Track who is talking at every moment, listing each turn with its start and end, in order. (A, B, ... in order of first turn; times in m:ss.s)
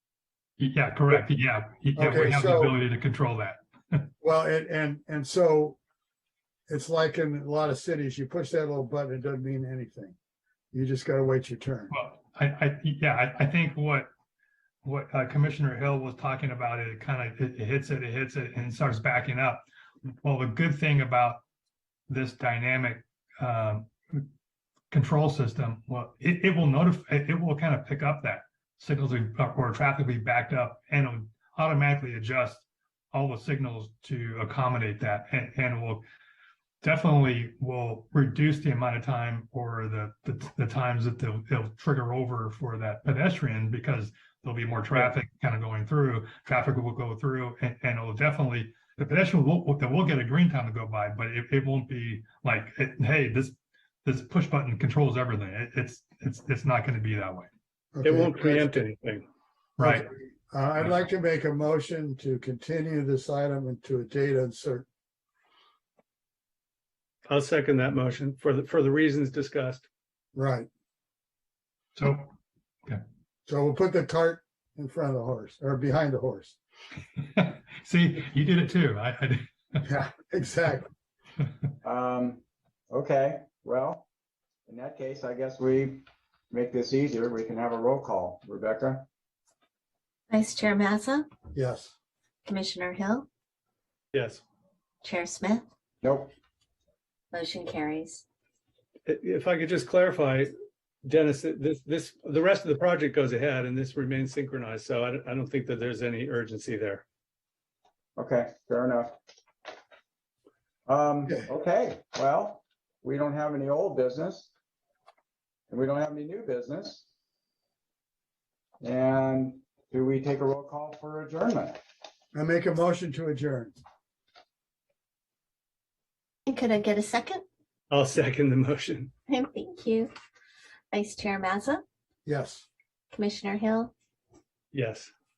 0:00.6-0:04.1 A
0:02.0-0:02.8 B
0:04.2-0:05.8 B
0:06.7-0:10.2 B
0:10.7-0:11.9 B
0:11.9-0:14.1 A
0:14.8-0:21.4 A
0:22.1-0:24.3 A
0:24.9-0:36.0 A
0:36.8-0:57.5 A
0:57.9-0:58.7 B
0:58.0-0:59.3 C
0:59.8-1:00.1 A
0:59.8-1:04.9 B
1:07.3-1:09.8 C
1:10.4-1:10.7 B
1:12.0-1:12.3 A
1:13.5-1:16.6 B
1:17.4-1:19.8 A
1:19.8-1:20.9 B
1:21.8-1:24.1 D
1:24.7-1:29.1 D
1:30.3-1:31.3 E
1:31.5-1:32.0 B
1:32.5-1:33.3 E
1:34.1-1:34.4 C
1:35.0-1:35.7 E
1:36.0-1:36.3 D
1:37.3-1:38.2 E
1:39.1-1:40.5 C
1:41.0-1:47.0 C
1:48.2-1:49.2 D
1:50.9-1:54.5 D
1:55.7-1:57.1 D
1:58.8-2:01.8 D
2:02.3-2:03.8 B
2:06.5-2:07.4 E
2:07.9-2:09.1 C
2:09.3-2:10.1 E
2:10.9-2:11.8 E
2:12.3-2:12.7 B
2:13.1-2:13.9 E
2:14.7-2:15.1 C